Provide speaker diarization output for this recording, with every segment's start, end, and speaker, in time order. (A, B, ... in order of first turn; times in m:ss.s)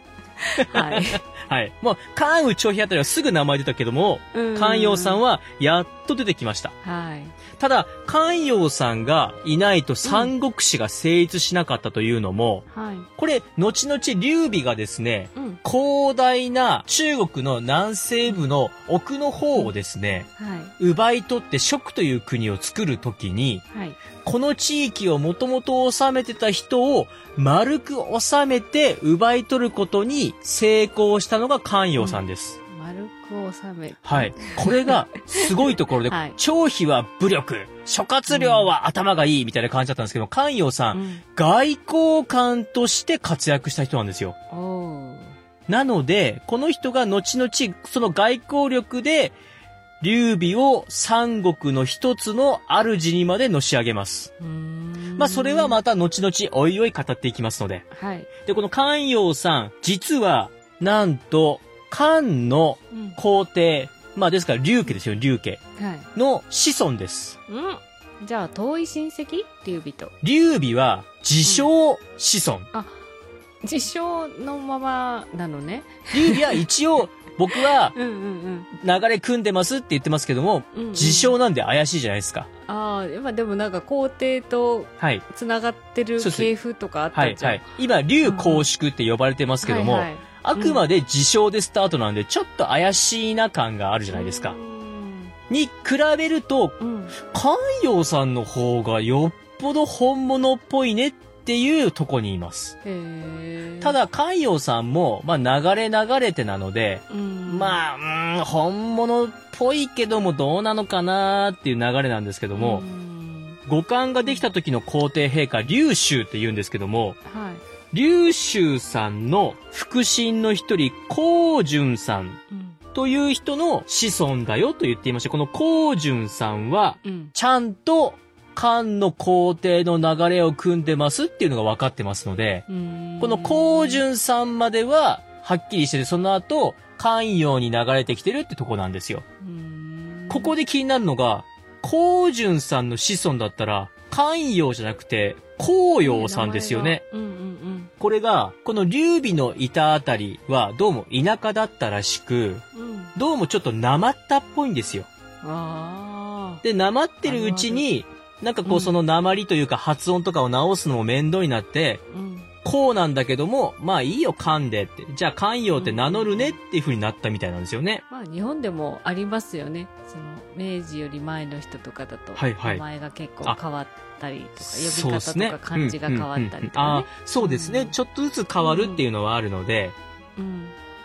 0:00.4-0:01.2 A
0:00.6-0:06.8 B
0:04.3-0:05.2 A
0:06.8-0:07.4 A
0:07.6-0:20.3 B
0:10.0-0:10.3 A
0:12.7-0:13.1 A
0:20.4-0:20.7 A
0:20.8-0:23.6 B
0:23.7-0:24.0 A
0:24.2-0:32.6 B
0:32.0-0:35.0 A
0:34.0-0:44.4 B
0:36.1-0:36.4 A
0:38.3-0:38.7 A
0:40.9-0:41.2 A
0:44.5-0:45.4 A
0:45.7-0:49.4 B
0:50.0-0:54.3 B
0:54.4-0:55.8 A
0:55.2-0:57.9 B
0:57.9-0:58.3 A
0:58.5-1:05.6 B
1:02.9-1:03.2 A
1:05.8-1:06.1 A
1:06.2-1:07.4 B
1:07.5-1:10.1 A
1:10.2-1:12.7 B
1:11.4-1:11.7 A
1:12.7-1:13.0 A
1:13.6-1:16.6 A
1:16.1-1:18.0 B
1:18.0-1:18.7 A
1:18.7-1:22.5 B
1:20.7-1:21.4 A
1:22.7-1:27.7 A
1:25.0-1:25.2 B
1:26.2-1:26.5 B
1:27.1-1:34.6 B
1:28.2-1:28.7 A
1:29.6-1:30.8 A
1:34.1-1:35.3 A
1:35.5-1:42.8 B
1:36.8-1:37.2 A
1:42.8-1:44.0 A
1:43.8-1:52.8 B
1:47.1-1:47.8 A
1:52.6-1:53.6 A
1:53.7-1:57.2 B
1:57.3-1:57.6 A
1:57.9-2:02.4 B
2:02.5-2:02.8 A
2:02.9-2:12.7 B
2:07.0-2:07.3 A
2:12.7-2:14.0 A
2:13.2-2:19.2 B
2:19.4-2:20.5 A
2:20.3-2:27.0 B
2:26.0-2:27.9 A
2:28.0-2:32.6 B
2:32.8-2:33.1 A
2:33.2-2:35.1 B
2:35.4-2:36.6 A
2:36.6-2:42.0 B
2:37.2-2:37.9 A
2:38.6-2:38.9 A
2:42.1-2:42.5 A
2:42.6-2:48.0 B
2:45.8-2:46.6 A
2:48.1-2:58.0 A
2:52.4-2:52.8 B
2:54.6-3:00.0 B
2:58.6-2:59.0 A
3:00.4-3:00.8 A